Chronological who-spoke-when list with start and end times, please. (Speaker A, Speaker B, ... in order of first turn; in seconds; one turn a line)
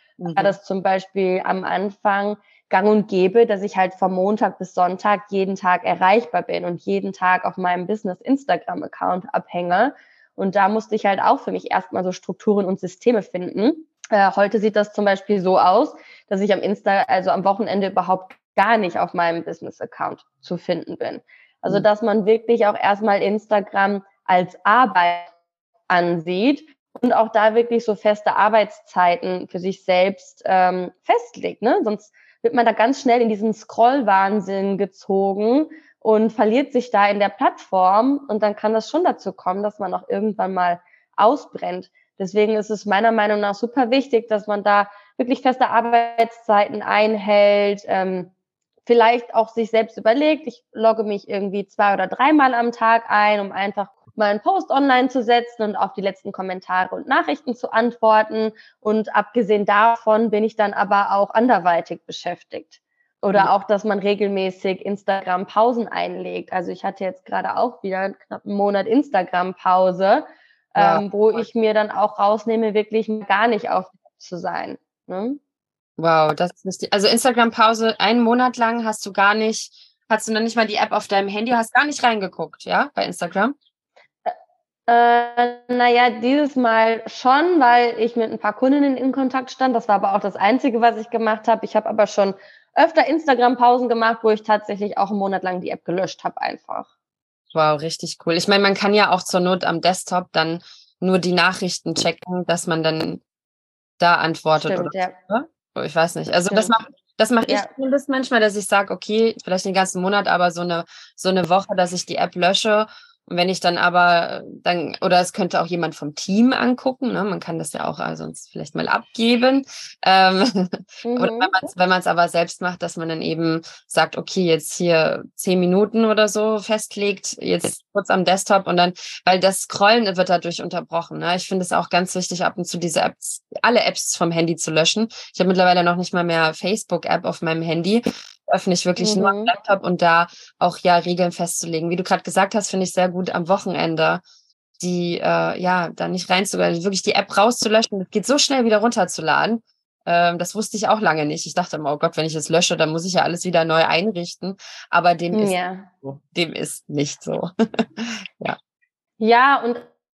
Speaker A: 0.2-0.5
Speaker B: 0.3-25.3
Speaker B: 25.9-48.3
Speaker B: 48.9-75.4
Speaker A: 70.8-71.0
Speaker A: 76.0-83.5
Speaker B: 84.9-96.9
Speaker A: 97.5-103.2
Speaker A: 104.0-144.2
Speaker B: 104.6-105.2
Speaker B: 106.5-106.8
Speaker B: 121.0-121.6
Speaker B: 139.0-139.5
Speaker A: 144.8-158.6
Speaker B: 155.3-155.9
Speaker B: 159.2-159.9